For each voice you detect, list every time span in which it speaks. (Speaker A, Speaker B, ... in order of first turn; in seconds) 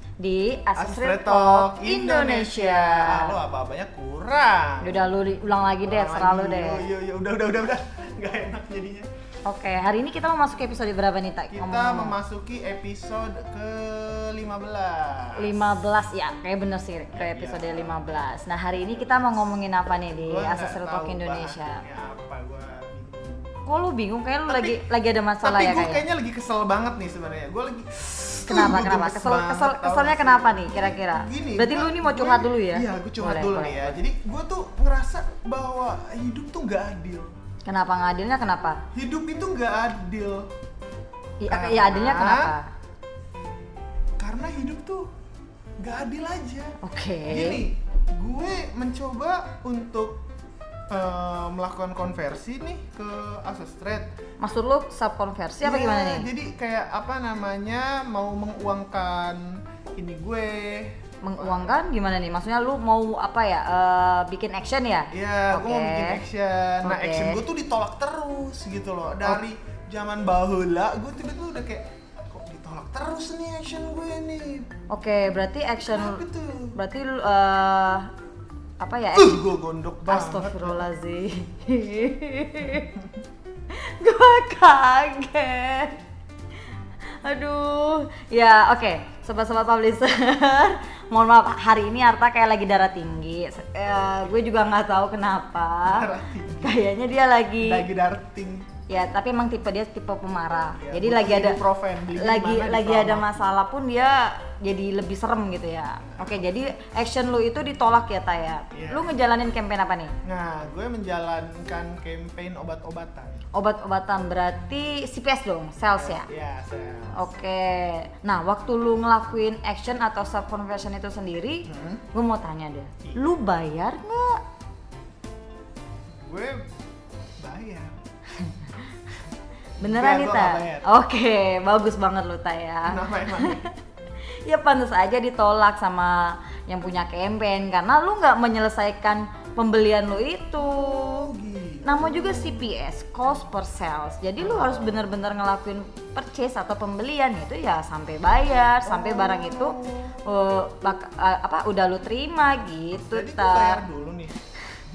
Speaker A: 0.2-3.4, 4.8-6.9, 9.4-12.2, 15.4-21.8, 23.6-26.0, 28.5-34.0, 37.6-38.8, 41.4-42.7, 46.8-47.6, 54.4-56.3, 61.2-66.2, 66.8-67.4, 74.9-76.2, 76.7-78.1, 78.8-79.4, 80.0-83.0, 83.7-86.0, 87.2-97.8, 98.9-101.6, 102.1-110.1, 113.5-116.3, 117.2-124.4, 129.8-133.8, 134.3-141.3, 141.8-153.8
Speaker B: 0.7-5.1, 5.8-9.1, 11.5-15.6, 17.1-19.5, 20.1-23.5, 24.5-24.8, 25.4-37.3, 38.9-40.5, 41.5-42.5, 44.2-45.1, 45.8-50.2, 50.9-54.1, 55.6-61.8, 65.1-74.7, 75.9-76.8, 79.1-80.9, 95.8-96.9, 97.6-98.7, 100.8-103.5, 106.0-106.5, 108.7-109.0, 110.2-113.4, 115.8-117.3, 121.7-122.0, 123.0-123.3, 126.1-126.6, 127.4-128.0, 129.8-130.9, 132.8-133.6, 140.6-142.7, 144.4-145.1, 148.8-150.3, 152.9-154.4